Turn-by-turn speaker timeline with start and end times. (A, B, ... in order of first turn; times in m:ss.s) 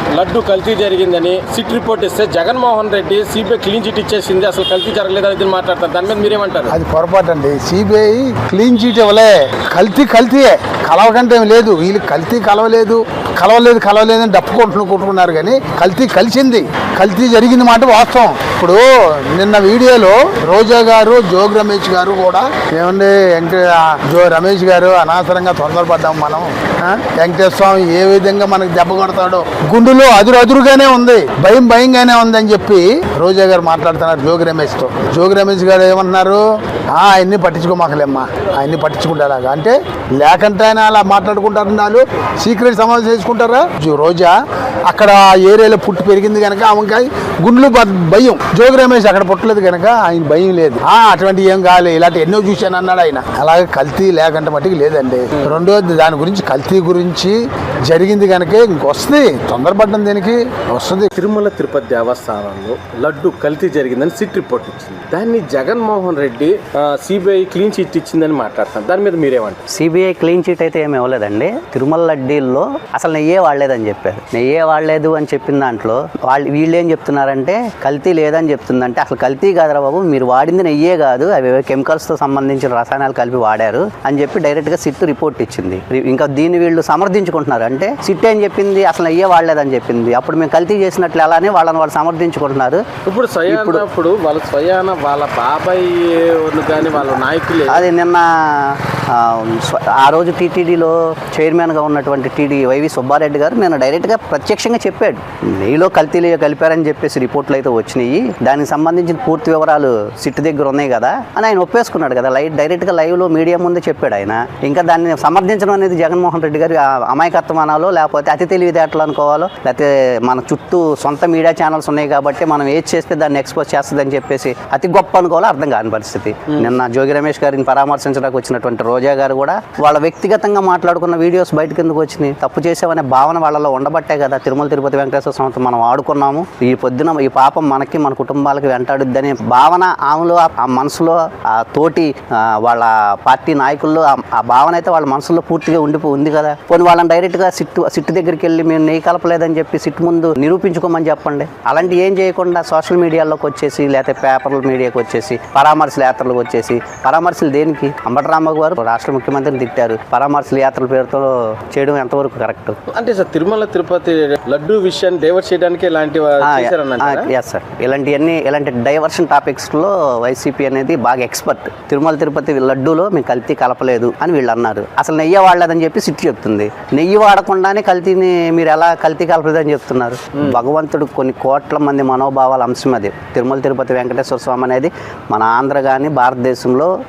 0:00.2-0:06.8 A
0:06.7-0:36.4 B
0:37.0-0:44.4 B
0:44.9-1:01.1 B
1:01.2-1:09.6 A
1:09.7-1:32.8 C
1:33.1-1:37.9 A
1:33.5-1:33.8 C
1:37.7-2:42.8 C
2:42.9-2:47.3 A
2:46.4-3:06.9 C